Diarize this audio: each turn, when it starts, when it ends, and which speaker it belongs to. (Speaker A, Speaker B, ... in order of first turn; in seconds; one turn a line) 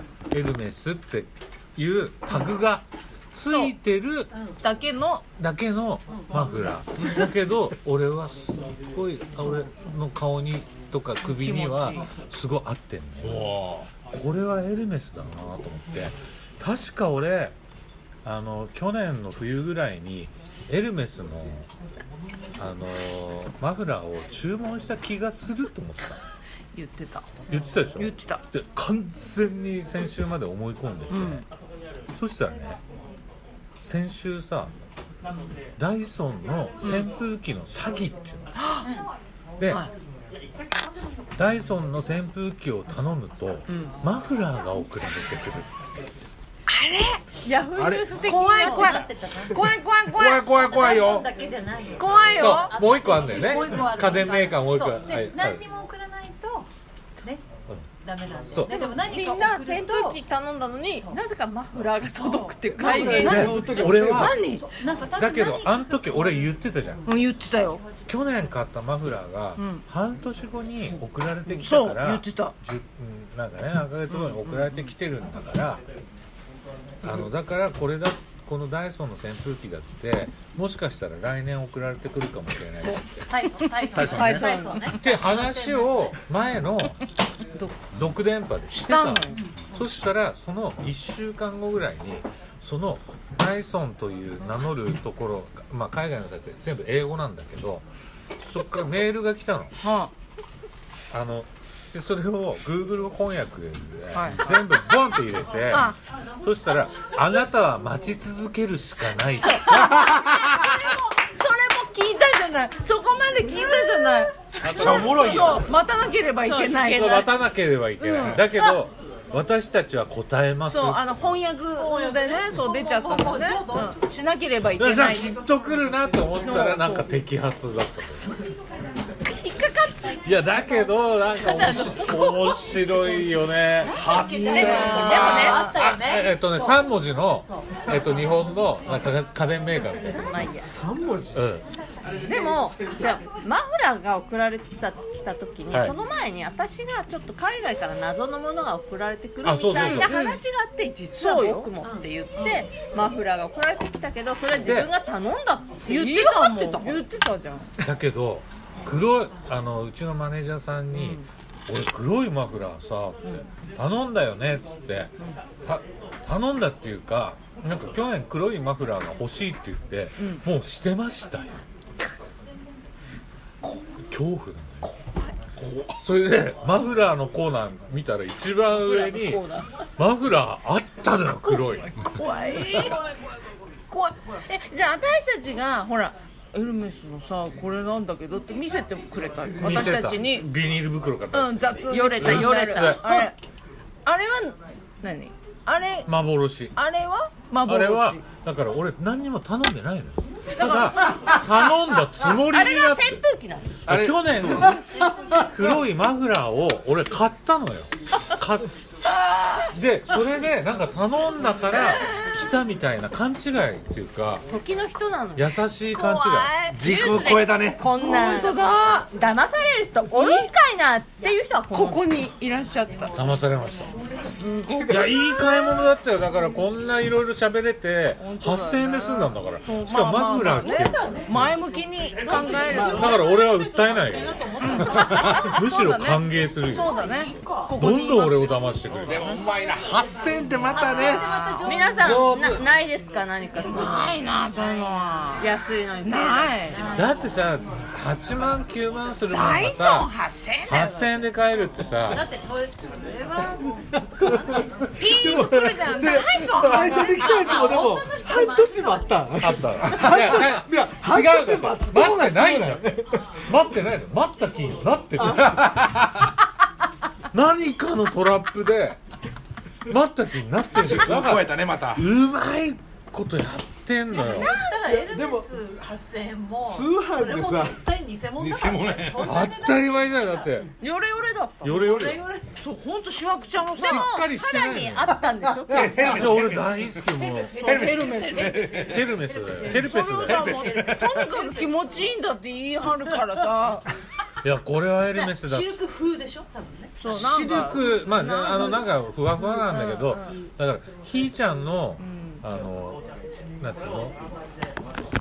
Speaker A: 0.3-4.3
Speaker B: 3.4-3.7
Speaker B: 4.6-5.2
Speaker A: 5.4-13.5
Speaker B: 11.3-12.1
Speaker C: 13.2-13.9
Speaker A: 14.1-17.5
Speaker A: 18.2-21.7
Speaker A: 22.6-26.2
Speaker B: 26.7-28.4
Speaker A: 27.5-31.4
Speaker B: 31.1-31.4
Speaker A: 32.1-32.8
Speaker A: 33.8-34.8
Speaker A: 35.8-38.5
Speaker B: 36.8-37.1
Speaker B: 38.5-38.9
Speaker B: 39.6-39.9
Speaker A: 41.4-45.7
Speaker B: 43.7-43.9
Speaker B: 46.7-47.2
Speaker D: 47.4-49.0
Speaker C: 47.7-48.1
Speaker B: 48.1-50.7
Speaker E: 48.6-49.6
Speaker C: 50.1-51.3
Speaker E: 50.6-56.7
Speaker B: 52.0-52.8
Speaker A: 52.4-55.7
Speaker E: 58.0-60.2
Speaker D: 58.7-63.8
Speaker B: 62.8-64.7
Speaker F: 62.8-64.4
Speaker A: 63.1-64.3
Speaker E: 64.4-66.5
Speaker A: 65.1-67.0
Speaker B: 67.0-67.8
Speaker A: 68.1-75.8
Speaker B: 69.6-69.8
Speaker B: 71.5-72.5
Speaker B: 74.1-74.9
Speaker A: 77.0-83.2
Speaker E: 83.3-86.1
Speaker C: 83.9-84.6
Speaker D: 84.0-84.9
Speaker A: 85.0-87.0
Speaker A: 87.9-97.8
Speaker B: 88.7-89.4
Speaker A: 98.4-99.8
Speaker B: 99.8-100.1
Speaker A: 101.1-110.1
Speaker B: 104.1-104.6
Speaker B: 105.7-106.0
Speaker B: 109.4-117.3
Speaker C: 114.5-115.7
Speaker A: 114.6-115.3
Speaker A: 116.6-121.1
Speaker B: 118.0-118.4
Speaker B: 120.6-125.3
Speaker E: 121.8-124.0
Speaker A: 124.8-128.3
Speaker B: 126.4-127.1
Speaker D: 129.2-130.2
Speaker A: 130.2-134.0
Speaker D: 131.4-132.6
Speaker E: 133.8-136.8
Speaker C: 133.9-135.4
Speaker D: 134.3-135.7
Speaker B: 134.3-135.7
Speaker A: 135.1-140.3
Speaker D: 140.3-140.7
Speaker F: 140.7-141.4
Speaker A: 141.3-141.7
Speaker D: 142.2-157.0
Speaker A: 145.7-146.0
Speaker A: 149.4-150.2
Speaker B: 149.7-150.4
Speaker B: 151.1-151.7
Speaker E: 151.8-152.7
Speaker A: 154.6-154.9
Speaker B: 155.8-157.7
Speaker A: 157.8-171.6
Speaker B: 160.9-161.2
Speaker B: 170.2-170.4
Speaker A: 173.7-174.9
Speaker C: 175.6-176.0
Speaker A: 176.0-182.0
Speaker D: 178.7-179.7
Speaker B: 181.9-183.1
Speaker B: 183.9-190.5
Speaker A: 189.6-193.3
Speaker B: 191.3-193.3
Speaker D: 191.9-193.3
Speaker B: 194.0-196.1
Speaker A: 196.1-196.8
Speaker B: 196.7-198.2
Speaker A: 197.6-203.2
Speaker B: 200.6-201.1
Speaker D: 202.3-203.7
Speaker C: 203.9-204.8
Speaker A: 203.9-208.7
Speaker D: 209.1-209.7
Speaker A: 209.7-214.4
Speaker D: 214.5-215.5
Speaker A: 215.3-216.6
Speaker B: 215.9-219.1
Speaker C: 216.7-217.8
Speaker D: 216.8-222.3
Speaker B: 220.1-220.5
Speaker B: 221.7-223.1
Speaker A: 223.1-223.9
Speaker B: 224.2-225.9
Speaker A: 224.9-231.5
Speaker B: 228.2-233.2
Speaker E: 230.6-231.3
Speaker E: 232.2-235.5
Speaker A: 232.8-236.9
Speaker B: 234.6-238.6
Speaker E: 236.9-237.7
Speaker A: 237.8-239.4
Speaker C: 239.1-241.3
Speaker E: 240.7-242.4
Speaker B: 240.8-241.7
Speaker D: 241.6-244.1
Speaker C: 242.1-242.6
Speaker B: 243.6-246.8
Speaker D: 245.4-246.6
Speaker E: 246.7-247.2
Speaker A: 246.9-250.1
Speaker B: 249.3-251.1
Speaker A: 250.7-252.2
Speaker E: 252.1-254.8
Speaker F: 253.9-263.3
Speaker B: 254.9-257.2
Speaker E: 256.8-259.3
Speaker A: 259.4-265.9
Speaker A: 267.3-269.0
Speaker A: 269.9-274.5
Speaker C: 270.7-272.0
Speaker E: 274.1-280.3
Speaker F: 274.8-275.5
Speaker F: 276.6-277.9
Speaker C: 278.4-279.4
Speaker A: 279.2-280.7
Speaker D: 280.8-281.7
Speaker A: 281.6-282.2
Speaker E: 281.6-282.5
Speaker B: 282.6-284.2
Speaker A: 283.8-285.1
Speaker D: 283.8-286.1
Speaker F: 285.7-285.9
Speaker C: 285.7-287.0
Speaker A: 286.0-287.7
Speaker E: 287.3-288.7
Speaker C: 287.5-289.1
Speaker B: 287.6-288.8
Speaker A: 288.7-290.5
Speaker B: 289.6-293.9
Speaker C: 290.2-291.3
Speaker E: 290.4-290.9
Speaker A: 294.4-295.8
Speaker E: 295.1-297.0
Speaker B: 297.0-300.3
Speaker A: 297.1-303.1
Speaker B: 302.0-302.4
Speaker A: 303.6-304.2